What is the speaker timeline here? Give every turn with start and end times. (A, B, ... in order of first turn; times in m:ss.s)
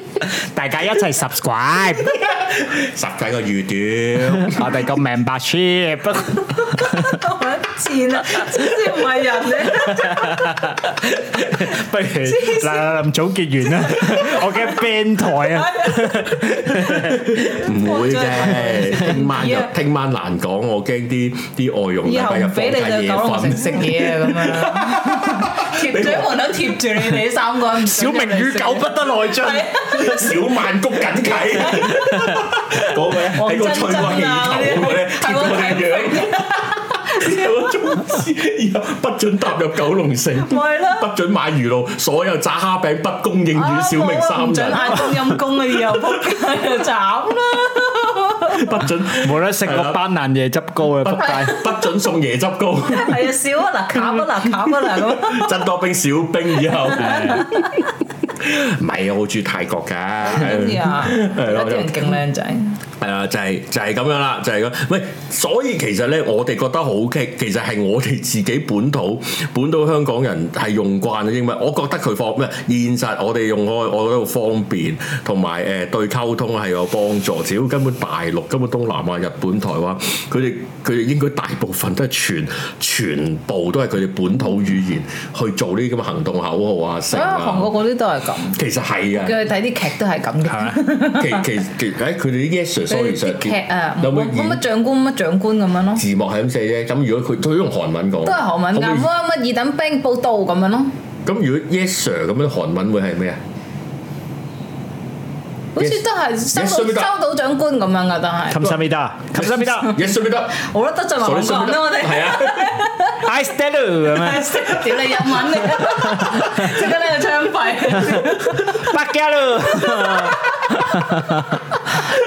0:00.3-0:02.2 A
0:02.1-0:04.8 B
0:04.3-0:07.2 A
0:06.7-0:10.7 C
0:09.7-0:17.6 A
0:11.6-0:13.0 C
0:13.8-0:16.5 C
0:17.0-0:26.6 B
0:17.4-0:19.7 C
0:22.0-0:30.5 C
0:27.8-0:29.7 A
0:29.9-0:46.1 B
0:31.3-0:31.9 C
0:31.8-0:32.4 A
0:33.2-0:37.5 C
0:40.4-0:41.1 C
0:43.6-0:48.8 C
0:48.5-0:50.0 B
0:49.2-0:51.6 A
0:51.0-0:53.3 B
0:52.9-0:55.6 C
0:54.0-0:57.8 B
0:56.7-0:57.8 C
0:57.0-0:57.5 A
0:58.4-1:02.2 B
1:00.2-1:02.8 C
1:03.0-1:27.7 B
1:27.1-1:28.6 C
1:28.5-1:29.4 B
1:29.2-1:31.5 C
1:30.4-1:30.8 A
1:31.2-1:34.6 B
1:32.9-1:36.0 C
1:36.0-1:39.1 B
1:38.2-1:40.9 C
1:41.2-1:43.4 B
1:45.8-1:48.8 C
1:46.5-1:47.1 B
1:48.5-1:50.0 A
1:49.4-1:50.6 B
1:49.9-1:53.2 C
1:51.2-1:52.8 B
1:53.2-1:54.7 A
1:54.1-1:58.9 C
1:55.8-1:56.7 A
1:58.0-2:01.6 A
1:59.7-2:00.4 C